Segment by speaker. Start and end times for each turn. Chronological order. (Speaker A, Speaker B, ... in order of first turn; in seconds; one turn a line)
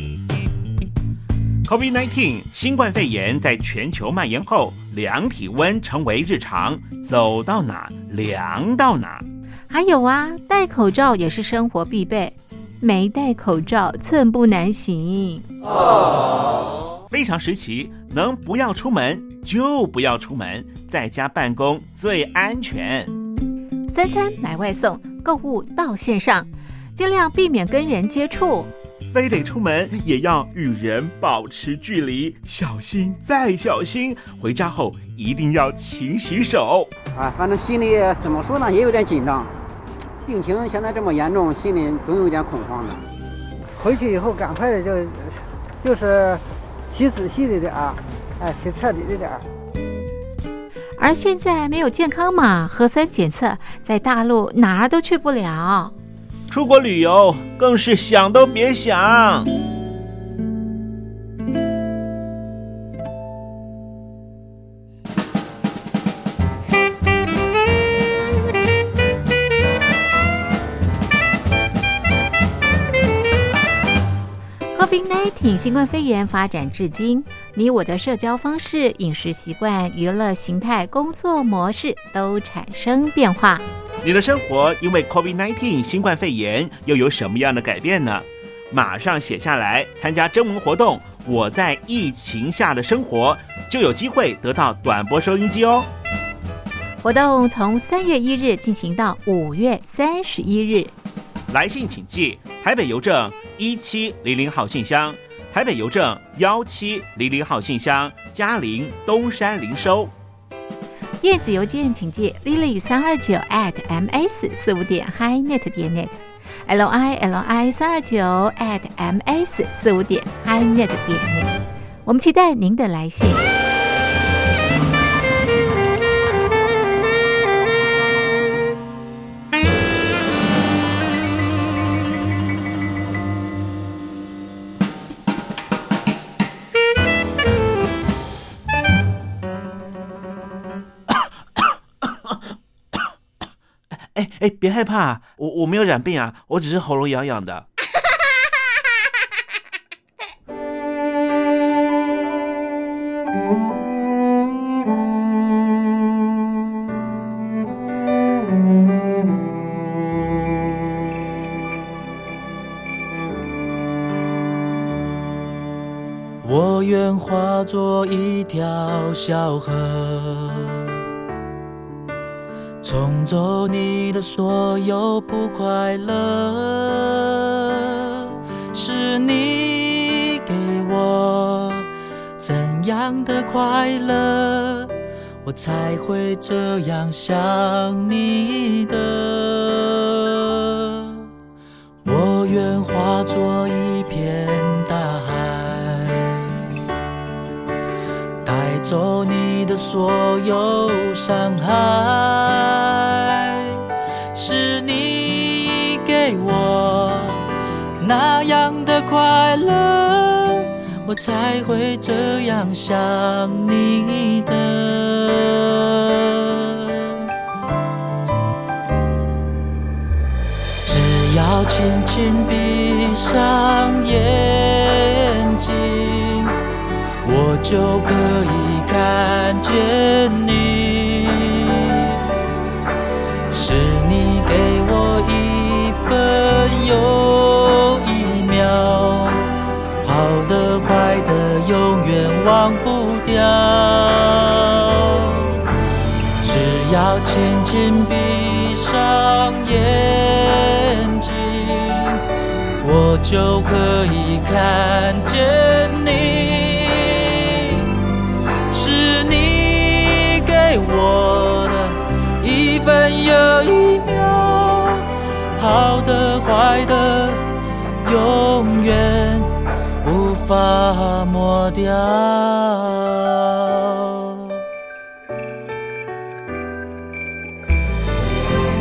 Speaker A: 1.6-9.2
Speaker B: 9.7-15.4
Speaker A: 17.1-23.1
Speaker B: 23.9-28.7
Speaker A: 29.1-36.9
Speaker C: 37.1-39.5
Speaker C: 40.2-43.0
Speaker D: 43.8-49.4
Speaker B: 51.0-55.9
Speaker A: 56.5-59.5
Speaker B: 74.7-83.6
Speaker A: 84.0-95.9
Speaker B: 97.0-100.9
Speaker A: 101.5-110.1
Speaker B: 111.2-121.5
Speaker B: 122.0-123.5
Speaker A: 144.1-147.7
Speaker E: 166.4-171.0
Speaker E: 172.8-184.9
Speaker E: 185.4-191.3
Speaker E: 192.0-196.7
Speaker E: 198.4-207.5
Speaker E: 208.0-217.3
Speaker E: 220.8-226.5
Speaker E: 227.2-232.2
Speaker E: 233.5-239.5
Speaker E: 240.0-245.6
Speaker E: 246.4-252.2
Speaker E: 252.8-257.9
Speaker E: 258.7-267.4
Speaker E: 268.0-274.6